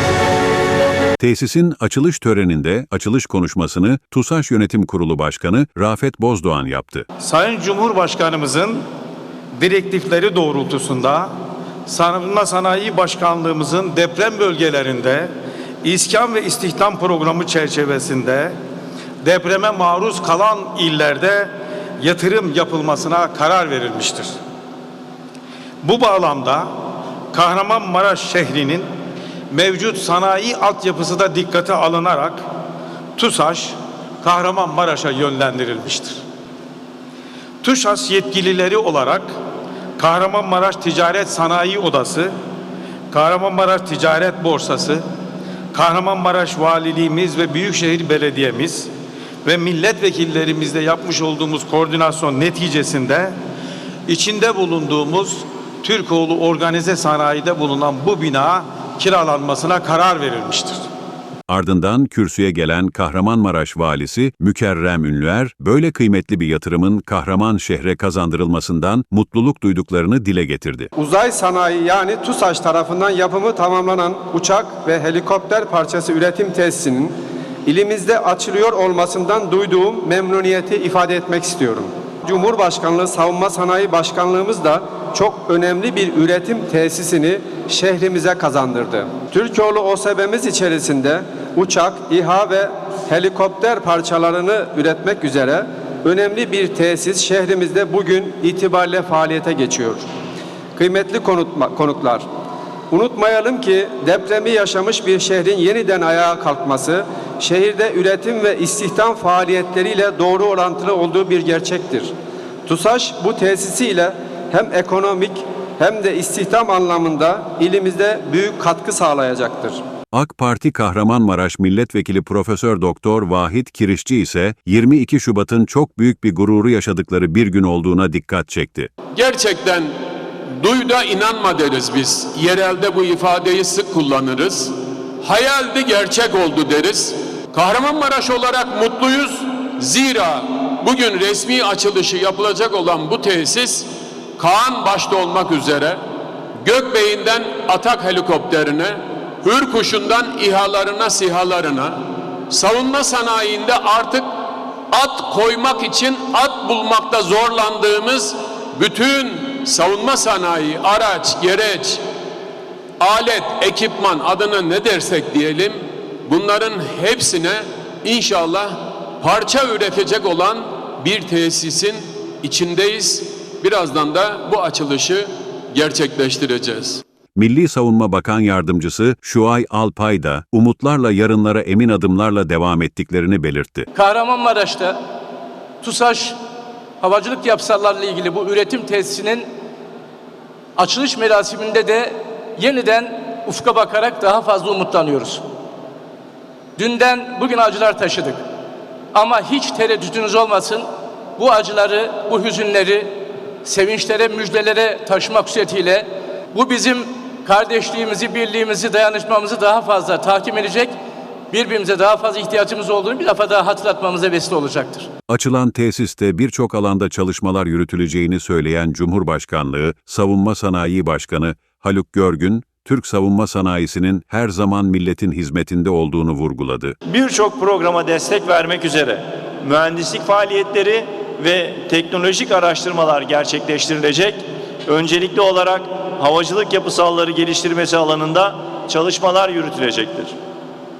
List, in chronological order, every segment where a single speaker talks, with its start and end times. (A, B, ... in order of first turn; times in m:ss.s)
0:01.2-0:07.0 A
0:07.2-0:08.8 B
0:09.6-0:11.3 B
0:11.9-0:15.3 B
0:15.8-0:18.5 B
0:19.2-0:24.3 B
0:25.8-0:26.7 B
0:27.3-0:28.9 B
0:29.5-0:32.4 B
0:33.2-0:36.2 B
0:37.6-0:39.3 B
0:40.0-0:42.3 B
0:43.1-0:45.0 B
0:45.7-0:48.9 B
0:49.4-0:53.3 B
0:54.1-1:00.8 B
1:01.5-1:10.9 A
1:11.0-1:17.1 C
1:17.6-1:40.1 C
1:40.8-1:42.2 C
1:42.9-1:52.1 C
1:52.6-1:59.8 C
2:00.1-2:08.9 A
2:09.1-2:09.9 D
2:10.6-2:23.8 D
2:24.4-2:26.0 D
2:26.6-2:32.0 D
2:32.5-2:34.2 D
2:34.9-2:42.0 D
2:43.0-2:57.0 D
2:57.3-3:03.9 A
3:03.9-3:05.0 E
3:05.8-3:06.4 E
3:07.0-3:09.5 E
3:10.8-3:15.4 E
3:16.8-3:18.4 E
3:19.1-3:31.0 E
3:31.5-3:35.1 E
3:35.3-3:47.0 A
3:47.1-4:00.3 F